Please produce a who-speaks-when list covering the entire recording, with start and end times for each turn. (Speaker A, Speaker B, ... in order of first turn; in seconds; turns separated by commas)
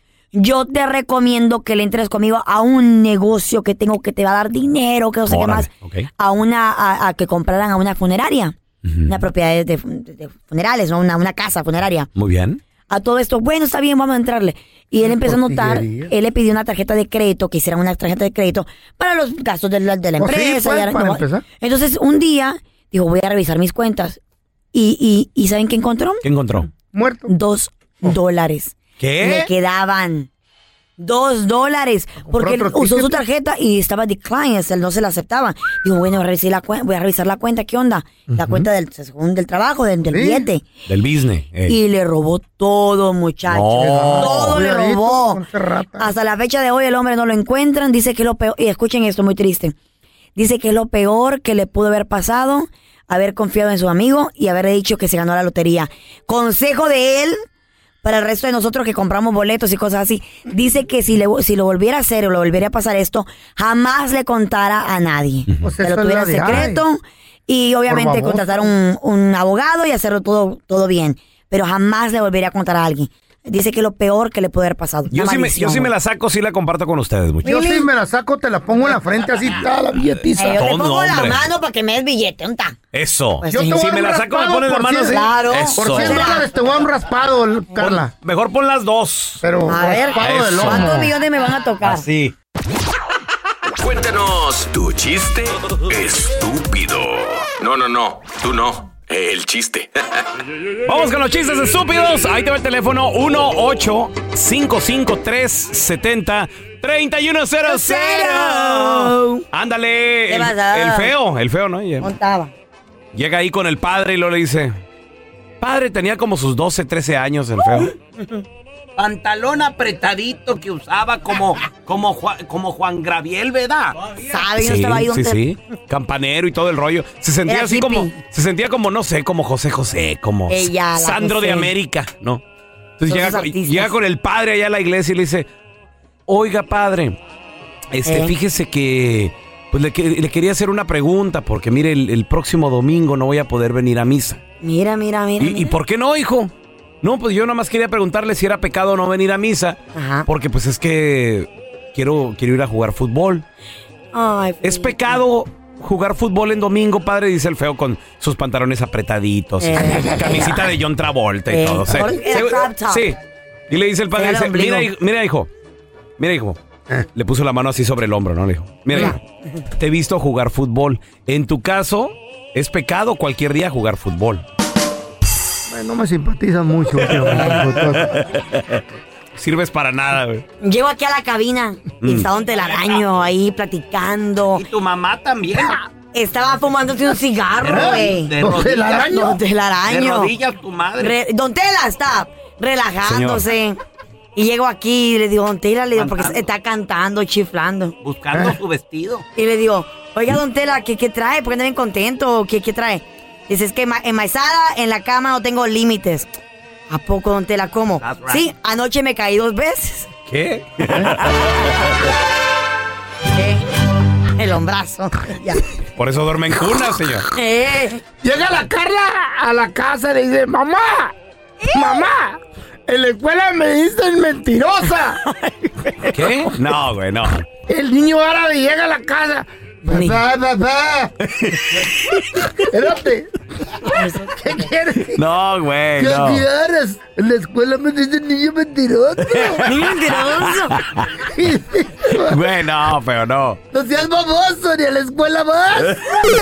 Speaker A: 0.3-12.1, Speaker B: 5.3-6.1, Speaker B: 8.8-9.1, Speaker B: 12.2-12.6, Speaker A: 12.9-24.2, Speaker C: 15.0-16.1, Speaker C: 20.2-21.4, Speaker A: 24.7-26.2, Speaker B: 26.2-26.7, Speaker C: 26.9-27.3, Speaker A: 27.3-30.3, Speaker B: 29.0-29.5, Speaker A: 31.0-40.6, Speaker C: 32.3-33.2, Speaker C: 38.3-38.7, Speaker C: 40.1-40.5, Speaker B: 40.9-41.8, Speaker A: 41.7-45.4, Speaker B: 43.5-44.6, Speaker C: 43.8-46.1, Speaker A: 46.0-49.7, Speaker A: 50.4-57.4, Speaker A: 58.0-75.9, Speaker B: 65.5-65.7, Speaker C: 65.6-66.8, Speaker C: 67.9-68.6, Speaker B: 75.1-77.6, Speaker A: 77.4-77.8, Speaker C: 77.4-80.6, Speaker A: 80.3-82.8, Speaker B: 80.5-81.5, Speaker B: 82.9-86.4, Speaker A: 83.4-83.9, Speaker C: 83.5-88.1, Speaker A: 85.0-86.5, Speaker B: 87.8-89.4, Speaker C: 89.4-91.1, Speaker A: 89.7-92.1, Speaker B: 90.2-91.1, Speaker B: 91.8-92.3, Speaker D: 93.8-100.2, Speaker B: 100.8-112.1, Speaker A: 107.7-109.4, Speaker A: 110.3-111.1, Speaker A: 112.0-112.5, Speaker B: 113.1-114.8, Speaker B: 115.6-117.9, Speaker E: 119.0-124.0, Speaker A: 124.3-125.4, Speaker B: 124.5-132.4, Speaker A: 127.5-128.1, Speaker A: 130.5-131.7, Speaker B: 133.0-135.5, Speaker A: 133.1-133.9, Speaker B: 136.3-137.2, Speaker B: 137.9-144.4, Speaker A: 138.1-138.3, Speaker A: 144.6-145.8, Speaker B: 145.4-153.4, Speaker A: 149.9-150.2, Speaker A: 154.1-155.2, Speaker B: 154.6-163.2, Speaker A: 159.6-160.7, Speaker A: 161.5-163.1, Speaker B: 163.7-165.5, Speaker A: 164.2-164.9, Speaker B: 166.2-166.6, Speaker B: 167.1-169.2, Speaker A: 168.9-169.2, Speaker B: 169.8-174.4, Speaker C: 175.7-178.2, Speaker B: 177.2-178.8, Speaker B: 179.3-180.4, Speaker A: 180.6-184.6, Speaker B: 182.0-182.3, Speaker E: 184.5-185.8, Speaker A: 185.7-190.3, Speaker E: 187.6-189.2, Speaker C: 187.6-189.4, Speaker E: 189.8-191.2, Speaker A: 191.0-193.8, Speaker B: 193.0-193.4, Speaker A: 194.3-198.0, Speaker E: 195.9-196.4, Speaker E: 198.0-199.2, Speaker A: 199.3-206.3, Speaker A: 206.9-210.1, Speaker E: 208.0-208.4, Speaker B: 210.3-211.4, Speaker A: 213.3-213.7, Speaker A: 214.3-215.6, Speaker B: 216.0-217.2, Speaker A: 217.3-218.0, Speaker C: 218.2-221.1, Speaker A: 221.6-222.0, Speaker C: 221.7-225.2, Speaker B: 226.1-227.4, Speaker C: 227.7-231.1, Speaker A: 229.9-230.2, Speaker B: 231.3-231.7, Speaker C: 232.6-233.3, Speaker C: 233.9-235.2, Speaker A: 233.9-234.7, Speaker B: 235.1-236.4, Speaker C: 236.0-239.7, Speaker B: 239.3-241.1, Speaker A: 239.6-240.8, Speaker C: 241.3-242.4, Speaker B: 242.2-243.6, Speaker C: 243.7-246.0